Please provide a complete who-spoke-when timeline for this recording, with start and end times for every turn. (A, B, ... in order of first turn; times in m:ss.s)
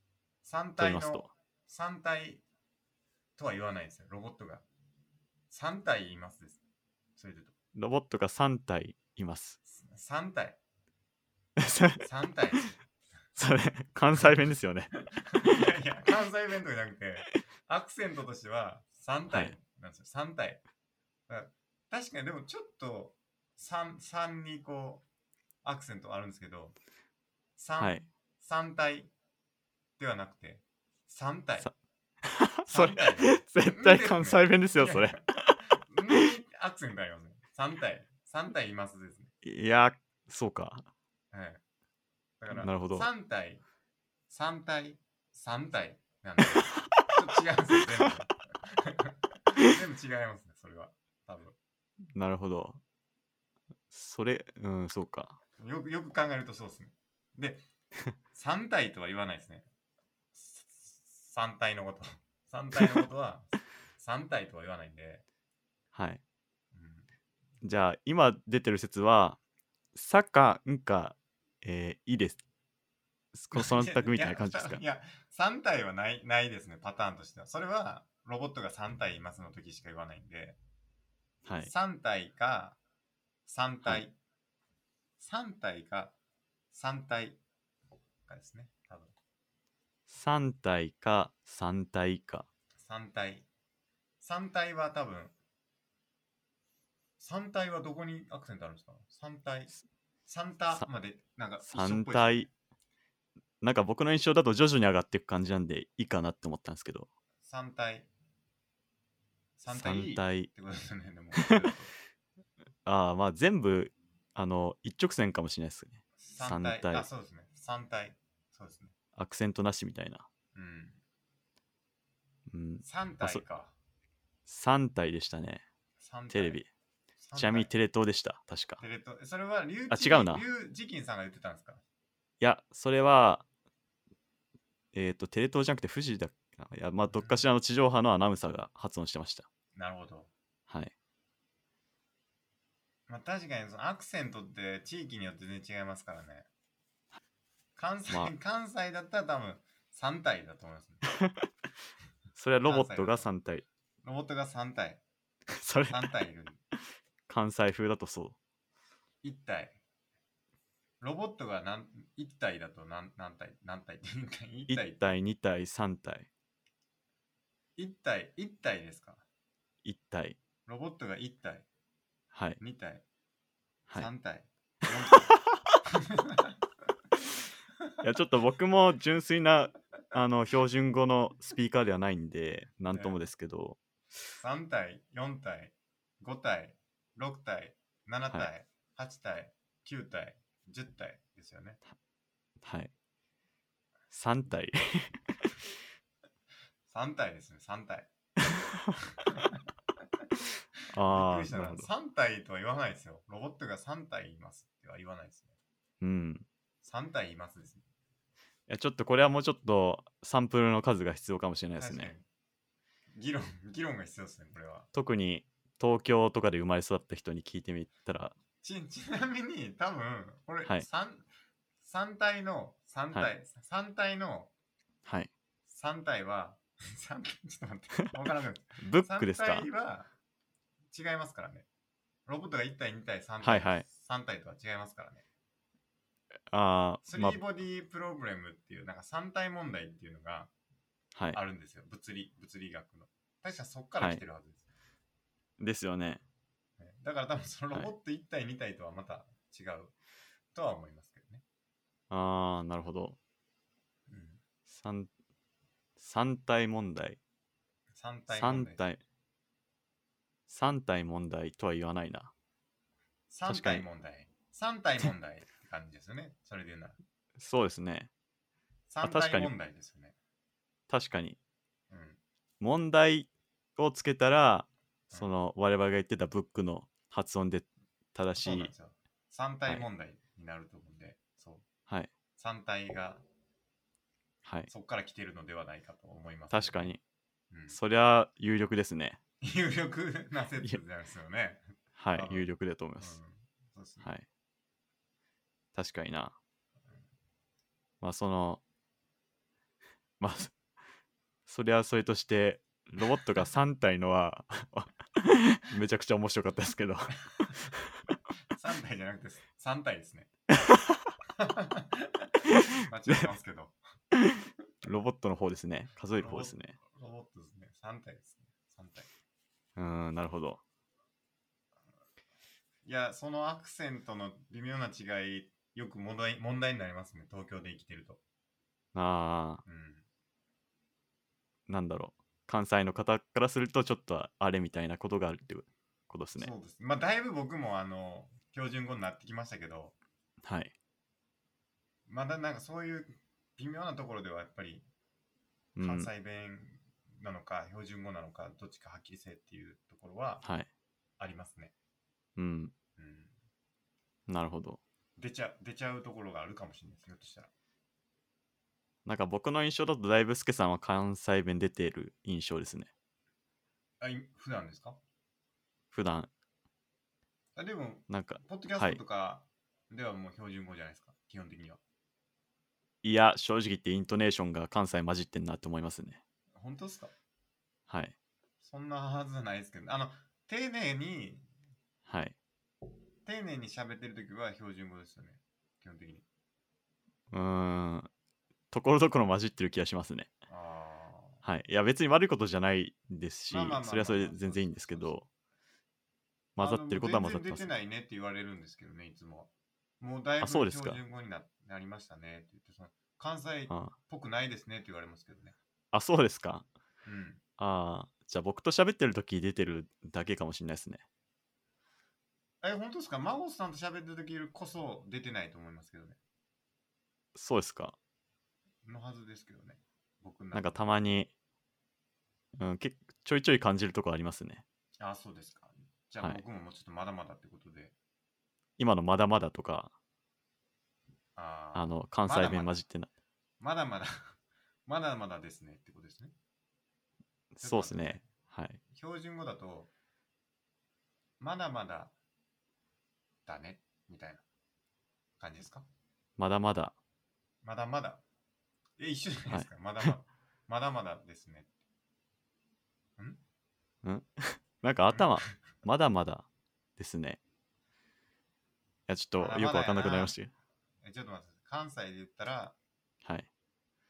0:00.4-0:02.4 A
0:00.8-0:01.3 B
0:03.4-0:04.6 A
0:05.5-0:06.6 A
0:07.2-0:07.5 A
0:07.8-0:09.6 B
0:09.7-0:10.6 A
0:11.6-0:12.0 B
0:12.0-0:12.8 A
0:13.4-0:15.7 B
0:15.1-0:20.6 A
0:21.3-0:25.0 A
0:25.6-0:26.8 A
0:27.6-0:29.1 A
0:27.8-0:28.0 B
0:30.0-0:31.7 A
0:32.2-0:35.6 B
0:32.7-0:39.3 A
0:39.4-0:40.8 B
0:41.3-0:41.6 A
0:42.4-0:43.6 A
0:42.5-0:43.1 B
0:44.3-0:51.6 A
0:52.1-0:52.8 B
0:53.9-0:55.4 B
0:55.6-0:57.6 A
0:58.3-0:59.7 A
1:00.4-1:05.2 A
1:05.9-1:06.2 B
1:06.7-1:07.1 A
1:07.6-1:09.4 B
1:09.9-1:12.4 B
1:13.3-1:14.8 B
1:13.5-1:20.6 A
1:21.4-1:21.7 B
1:21.6-1:22.8 A
1:23.5-1:24.2 A
1:25.2-1:26.2 A
1:26.7-1:27.4 A
1:28.3-1:29.1 A
1:30.1-1:32.5 B
1:32.8-1:33.5 A
1:34.2-1:35.4 A
1:37.2-1:39.7 A
1:40.3-1:42.5 A
1:41.6-1:42.5 B
1:43.6-1:47.1 B
1:47.4-1:48.1 A
1:49.6-1:51.9 A
1:49.7-1:50.5 B
1:52.8-1:57.1 B
1:56.2-1:58.9 A
1:59.2-2:00.3 B
2:00.6-2:01.0 A
2:02.5-2:03.4 B
2:02.8-2:03.8 A
2:04.5-2:05.6 B
2:06.0-2:06.6 A
2:06.3-2:06.7 B
2:07.2-2:07.7 A
2:07.4-2:08.8 B
2:08.8-2:11.8 A
2:09.9-2:10.4 B
2:12.4-2:13.4 B
2:14.9-2:19.5 B
2:17.1-2:17.5 A
2:19.8-2:20.3 A
2:20.7-2:20.9 B
2:23.1-2:26.5 A
2:27.8-2:31.0 A
2:31.2-2:31.4 B
2:32.4-2:33.6 B
2:32.7-2:33.3 A
2:34.0-2:35.0 A
2:35.5-2:36.1 B
2:35.9-2:36.6 A
2:37.3-2:38.4 B
2:39.2-2:39.8 A
2:41.0-2:45.1 A
2:44.7-2:46.3 B
2:47.8-2:49.2 A
2:49.8-2:50.4 B
2:50.7-2:51.7 A
2:52.3-2:52.6 B
2:52.6-2:53.0 A
2:53.9-2:55.3 A
2:55.9-2:56.6 A
2:58.0-3:03.8 B
3:02.9-3:03.2 A
3:04.4-3:11.8 A
3:12.6-3:12.9 B
3:14.1-3:15.6 B
3:16.9-3:18.1 A
3:18.5-3:19.0 B
3:19.2-3:19.6 A
3:20.9-3:21.9 B
3:21.0-3:25.5 A
3:26.0-3:26.5 B
3:26.8-3:27.8 A
3:28.7-3:32.1 B
3:31.8-3:32.2 A
3:33.2-3:34.9 A
3:34.9-3:38.4 B
3:38.6-3:41.3 A
3:41.8-3:44.5 A
3:45.7-3:50.1 A
3:48.8-3:49.7 B
3:50.9-3:51.7 A
3:52.3-3:55.2 A
3:53.4-3:53.9 B
3:56.5-3:57.4 B
3:57.0-4:00.5 A
4:01.2-4:01.4 B
4:01.3-4:04.6 A
4:05.6-4:06.2 B
4:06.8-4:09.9 A
4:10.5-4:11.4 A
4:12.1-4:13.2 B
4:14.1-4:14.4 A
4:14.7-4:15.1 B
4:16.0-4:17.2 B
4:18.0-4:18.8 A
4:18.3-4:19.0 B
4:20.5-4:22.3 B
4:23.3-4:27.0 A
4:23.5-4:23.9 B
4:27.4-4:28.1 B
4:28.9-4:30.2 A
4:29.0-4:29.5 B
4:30.9-4:31.4 B
4:31.9-4:32.2 A
4:32.6-4:38.7 B
4:38.4-4:41.7 A
4:42.4-4:43.2 A
4:44.4-4:44.7 B
4:44.7-4:46.9 A
4:46.5-4:47.0 B
4:47.5-4:47.8 A
4:47.7-4:49.2 B
4:49.4-4:51.6 A
4:52.0-4:53.2 B
4:52.1-4:54.1 A
4:55.8-4:56.4 B
4:58.0-4:58.6 B
5:00.2-5:00.6 B
5:01.5-5:07.9 B
5:08.6-5:10.3 A
5:10.5-5:11.1 B
5:11.4-5:13.8 A
5:12.5-5:13.3 B
5:14.1-5:16.8 B
5:16.2-5:19.1 A
5:19.8-5:20.6 B
5:22.8-5:28.2 A
5:29.0-5:29.6 B
5:29.7-5:30.0 A
5:31.7-5:36.5 B
5:36.4-5:40.0 A
5:40.4-5:40.7 B
5:42.1-5:44.9 A
5:45.8-5:46.1 B
5:45.8-5:50.4 A
5:50.4-5:50.7 B
5:51.2-5:51.7 A
5:52.4-5:52.7 B
5:53.0-5:53.3 A
5:54.3-5:54.8 B
5:55.2-5:57.5 A
5:59.0-6:02.9 B
6:04.0-6:05.0 A
6:05.9-6:06.3 B
6:07.6-6:11.8 A
6:08.1-6:09.0 B
6:13.0-6:16.2 B
6:16.6-6:17.1 A
6:17.9-6:18.2 B
6:18.6-6:21.5 A
6:22.1-6:22.4 B
6:23.2-6:26.2 A
6:27.3-6:28.1 B
6:28.7-6:30.3 B
6:30.5-6:31.4 A
6:31.4-6:35.3 B
6:33.5-6:35.2 A
6:36.6-6:37.7 B
6:36.6-6:45.6 A
6:40.4-6:41.0 B
6:45.9-6:46.7 B
6:47.0-6:47.4 A
6:47.6-6:51.0 B
6:52.6-6:56.2 A
6:57.4-6:58.0 B
6:58.8-7:01.0 A
7:00.5-7:01.3 B
7:02.6-7:04.6 B
7:05.0-7:07.9 A
7:08.8-7:09.9 B
7:11.4-7:12.7 A
7:11.8-7:13.1 B
7:13.6-7:16.3 A
7:17.5-7:18.8 B
7:17.6-7:18.3 A
7:18.9-7:19.9 A
7:21.4-7:22.1 A
7:23.5-7:24.4 A
7:25.4-7:25.8 A
7:26.4-7:27.0 B
7:27.6-7:28.2 A
7:29.0-7:31.7 A
7:29.5-7:30.1 B
7:34.0-7:37.4 B
7:35.1-7:35.6 A
7:39.1-7:40.5 B
7:39.4-7:40.4 A
7:41.0-7:42.8 A